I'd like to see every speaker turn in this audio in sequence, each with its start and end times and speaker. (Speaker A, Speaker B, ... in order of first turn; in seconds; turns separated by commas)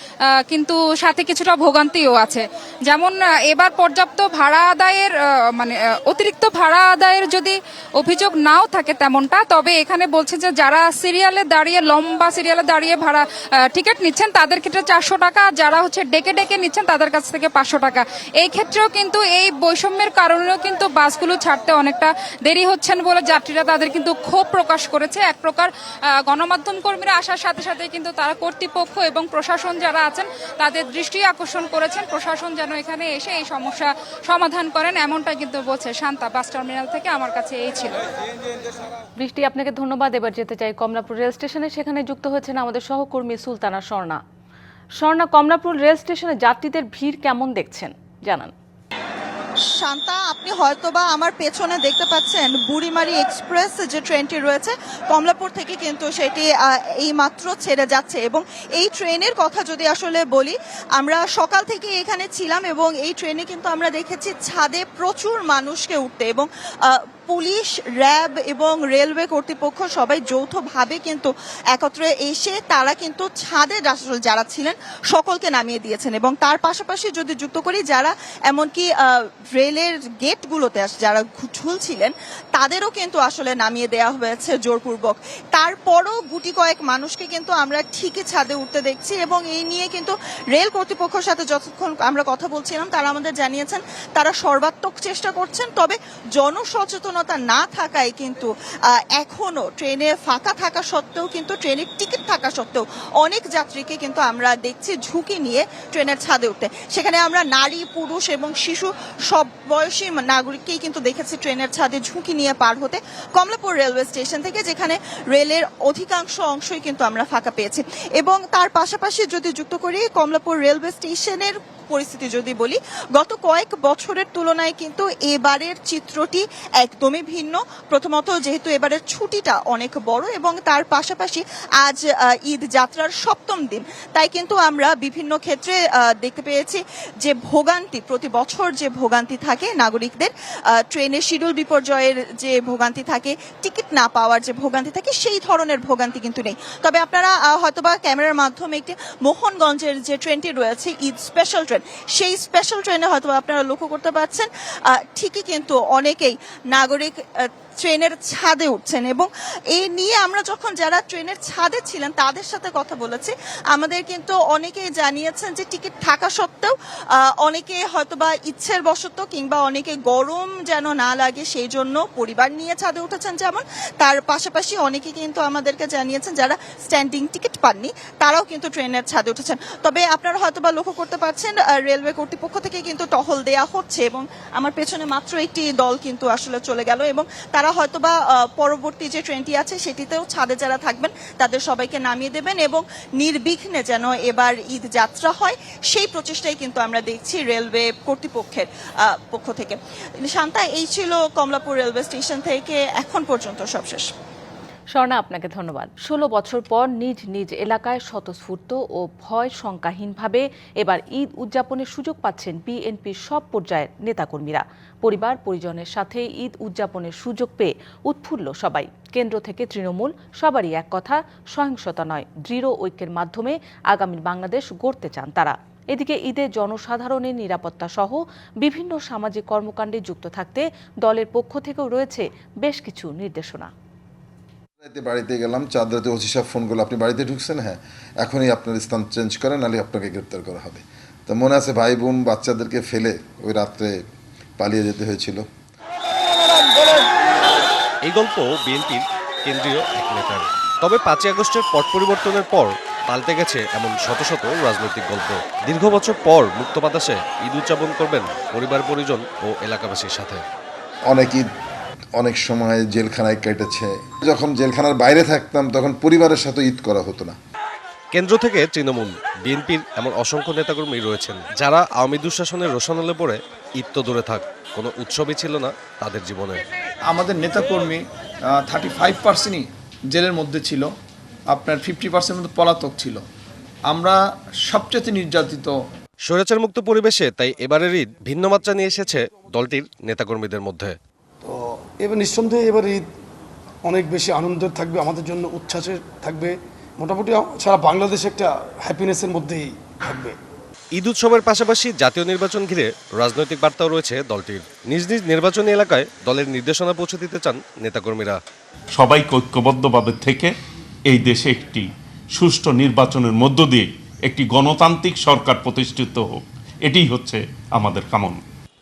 Speaker A: 0.5-38.0, Speaker B: 39.2-44.2, Speaker B: 45.0-48.5, Speaker C: 49.8-166.7, Speaker C: 167.4-204.1, Speaker B: 204.9-233.7, Speaker D: 234.8-244.0, Speaker D: 244.6-245.4, Speaker E: 248.1-260.4, Speaker D: 261.1-261.5, Speaker D: 262.2-267.4, Speaker E: 268.1-276.6, Speaker F: 277.1-278.0, Speaker F: 278.6-280.9, Speaker F: 281.5-283.2, Speaker F: 283.9-285.7, Speaker E: 286.3-290.9, Speaker G: 291.4-293.0, Speaker G: 293.9-300.4, Speaker E: 301.0-308.4, Speaker H: 309.0-310.5, Speaker H: 311.1-311.9, Speaker H: 312.4-318.4